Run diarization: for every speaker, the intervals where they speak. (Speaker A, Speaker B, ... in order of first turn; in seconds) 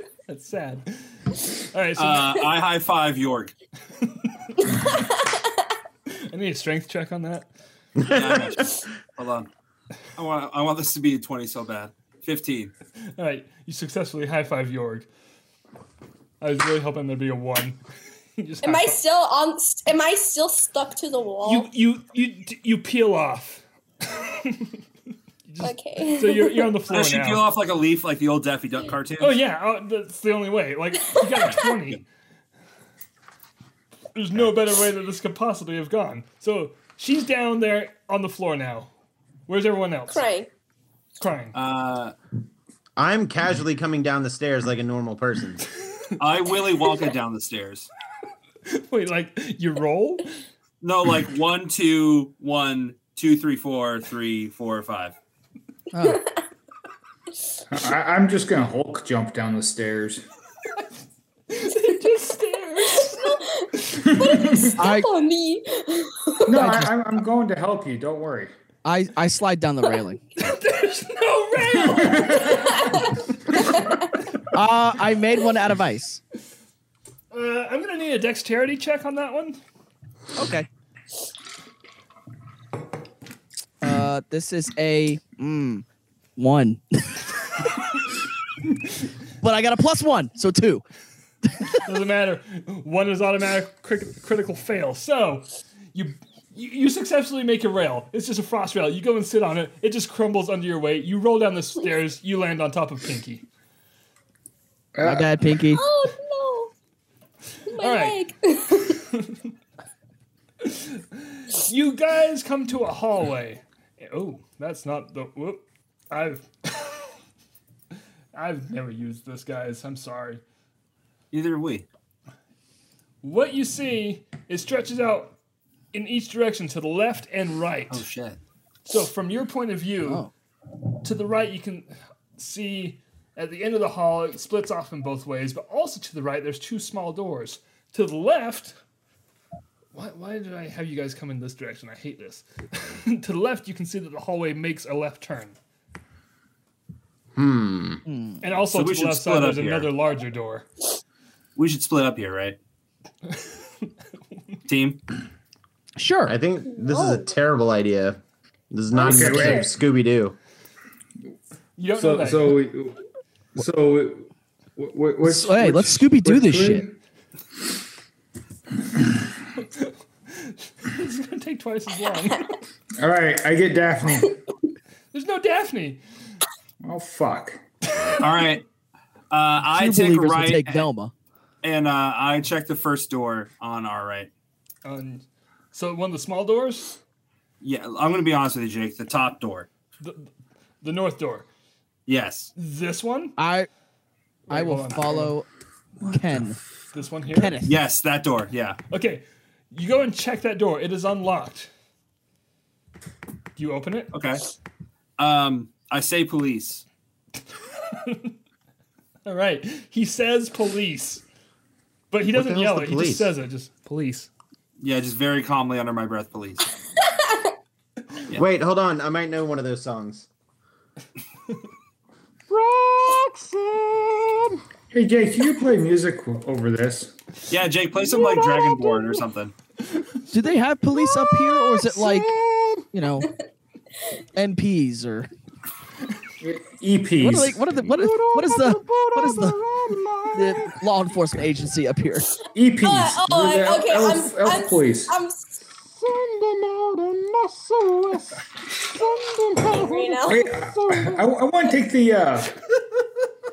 Speaker A: 0.3-2.3, 6.1-7.5, 13.2-15.1, 16.4-17.8, 18.4-19.0, 21.4-24.8, 25.5-27.4, 29.2-32.0, 34.1-38.9, 39.5-40.2, 41.2-41.5, 48.6-50.3, 61.5-64.0, 70.4-73.1, 77.3-79.6, 91.8-103.4, 107.8-108.2, 108.9-109.4, 110.6-117.1, 118.3-120.4, 123.2-125.3, 125.9-128.0, 128.8-130.2, 131.0-138.8, 139.9-145.6, 148.4-150.7, 153.3-153.8, 161.8-162.6, 169.6-172.5, 175.1-176.0, 184.8-187.0, 190.0-191.4, 192.6-193.3, 194.5-195.3, 196.9-197.6, 198.9-201.7, 203.6-204.1, 207.9-208.3, 209.2-211.2, 212.1-214.3
Speaker B: 2.0-3.5, 8.1-9.5, 10.2-12.7, 26.9-29.4, 41.5-42.1, 46.2-47.9, 50.8-55.1, 121.3-121.8, 127.9-128.4, 148.7-149.9, 151.6-152.6, 154.7-155.0, 178.2-178.6, 179.3-180.9, 181.6-184.3, 187.6-189.7, 192.1-192.5, 197.6-198.8, 204.1-204.4, 205.2-206.8, 214.8-216.7, 227.5-229.5
Speaker C: 4.6-5.7, 18.6-21.7, 25.6-26.7, 40.1-40.5, 56.0-56.4, 63.0-66.6, 72.4-74.2, 105.7-106.7, 107.7-109.0, 156.7-157.3, 158.9-159.7, 217.0-217.5, 228.3-228.9, 242.8-245.6, 249.6-250.5
Speaker D: 8.0-8.8, 43.0-45.6, 147.3-148.0, 156.3-158.2, 158.7-160.3, 212.3-213.3, 218.3-220.3, 222.5-224.4, 232.5-232.8, 238.9-239.2, 239.8-240.4, 246.9-248.2
Speaker E: 55.9-56.2, 64.8-65.1, 66.5-67.0, 68.8-70.2, 74.5-76.2, 80.3-80.7, 83.8-85.8, 86.4-87.3, 89.4-90.8, 105.0-105.8, 130.0-130.3, 148.1-148.4, 155.9-156.4, 165.2-166.8, 179.7-181.1, 193.4-193.7, 194.5-195.4, 196.0-196.6, 197.3-197.7, 230.3-232.3, 232.9-233.3, 234.3-235.3, 237.2-239.6, 240.3-242.3
Speaker F: 57.7-60.2, 64.2-64.7, 66.5-68.5, 71.9-72.7, 105.0-105.3, 158.9-159.7, 161.9-163.0, 163.6-166.9, 173.0-174.4, 176.8-177.6, 224.9-227.2, 236.4-237.9, 242.5-245.1, 250.2-252.6